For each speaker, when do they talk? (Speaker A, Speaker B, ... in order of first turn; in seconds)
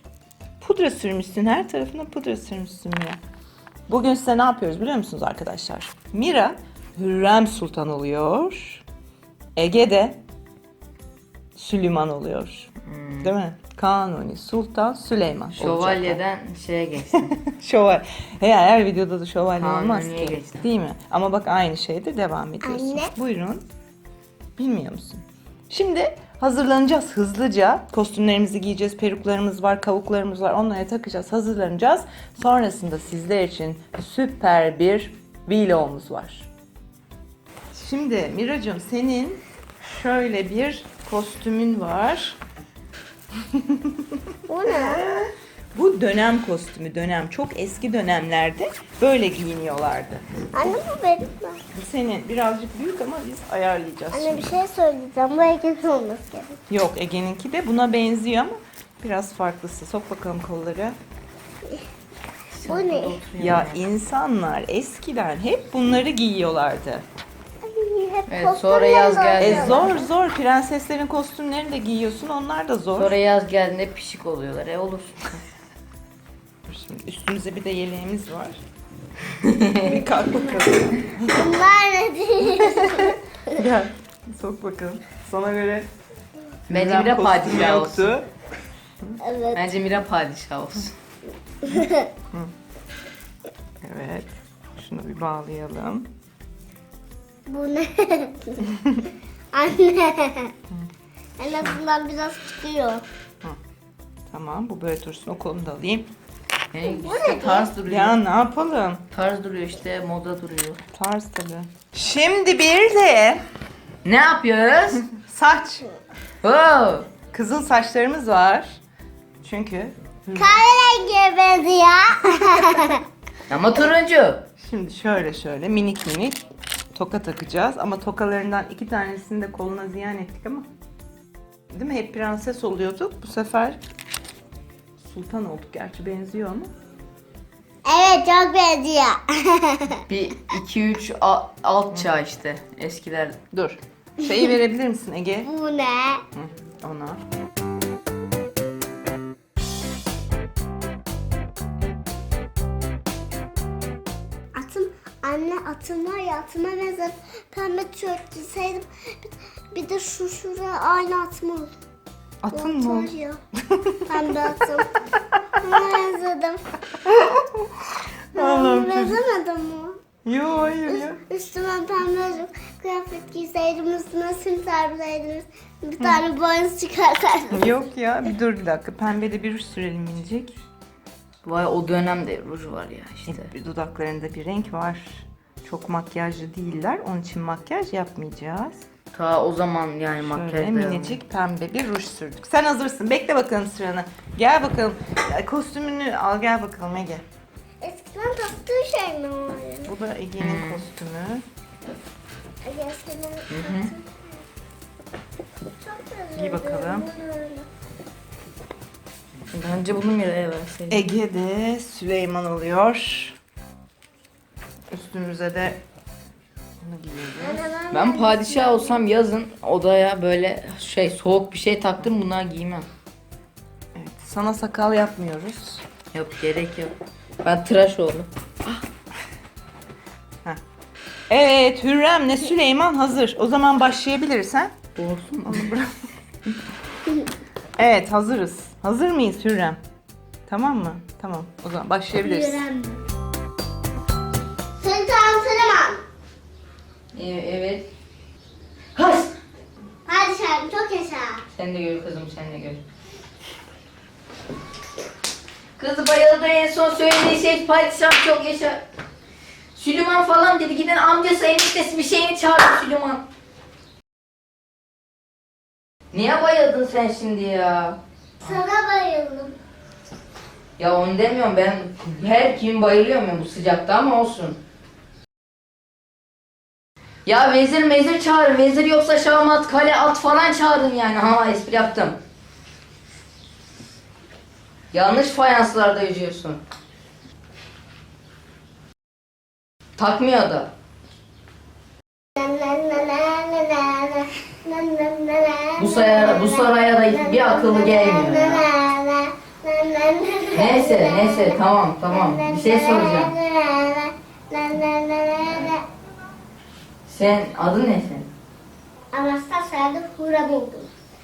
Speaker A: 0.6-3.2, 3.9-8.8, 9.6-10.2, 11.6-12.7, 13.2-16.2, 17.1-23.7, 24.6-36.5, 37.7-42.4, 43.5-50.8, 51.7-54.6, 56.7-61.0, 63.4-67.1, 69.4-73.1, 76.7-78.6, 79.8-81.5, 82.8-85.9, 86.7-88.3, 93.8-96.1, 104.3-106.1, 107.8-109.0, 110.9-113.4, 115.1-115.9, 117.3-118.8, 119.4-120.6, 124.6-130.7, 131.7-133.8, 135.0-136.7, 143.5-145.5, 146.3-147.2, 162.4-164.5, 167.0-169.2, 170.2-171.2, 177.5-180.5, 183.3-188.8, 190.2-197.2, 199.9-201.4, 206.3-207.1, 210.9-213.4, 214.9-215.8, 216.8-217.7, 224.0-225.8, 231.3-234.7, 235.4-235.9, 237.8-239.8, 240.5-242.7
Speaker B: 12.8-13.3, 15.6-17.4, 19.6-20.7, 62.6-63.8, 68.3-69.9, 73.0-75.4, 79.4-80.1, 86.7-88.2, 89.5-90.9, 106.7-108.2, 109.1-110.8, 114.0-115.1, 116.4-117.1, 123.5-124.4, 140.1-143.4, 181.4-183.5, 189.1-191.2, 200.4-200.9, 203.5-203.9, 209.5-211.0, 217.9-222.9, 226.1-228.7, 235.0-235.7, 247.1-247.9, 249.0-249.3, 251.5-252.8, 255.8-258.8, 259.8-263.2, 266.1-268.0, 270.8-274.6, 277.2-282.2, 284.9-286.6, 290.0-290.7, 295.8-298.7, 300.5-303.3, 307.1-308.3
Speaker C: 22.6-23.1, 44.5-45.0, 50.5-51.6, 54.1-56.6, 62.7-63.2, 67.6-69.9, 81.3-83.6, 89.2-89.7, 91.7-92.1, 97.5-98.7, 99.5-100.5, 101.4-103.0, 106.8-107.7, 120.3-123.0, 137.8-140.0, 144.2-144.5, 145.4-146.2, 154.5-158.8, 159.7-161.7, 162.5-163.4, 164.1-164.9, 165.6-166.6, 168.3-170.0, 170.9-177.7, 197.8-199.9, 202.6-204.3, 205.8-207.7, 217.4-219.0, 242.2-243.0, 244.8-246.0, 250.1-251.4, 268.4-269.6, 292.4-301.6, 302.1-305.8, 309.1-310.9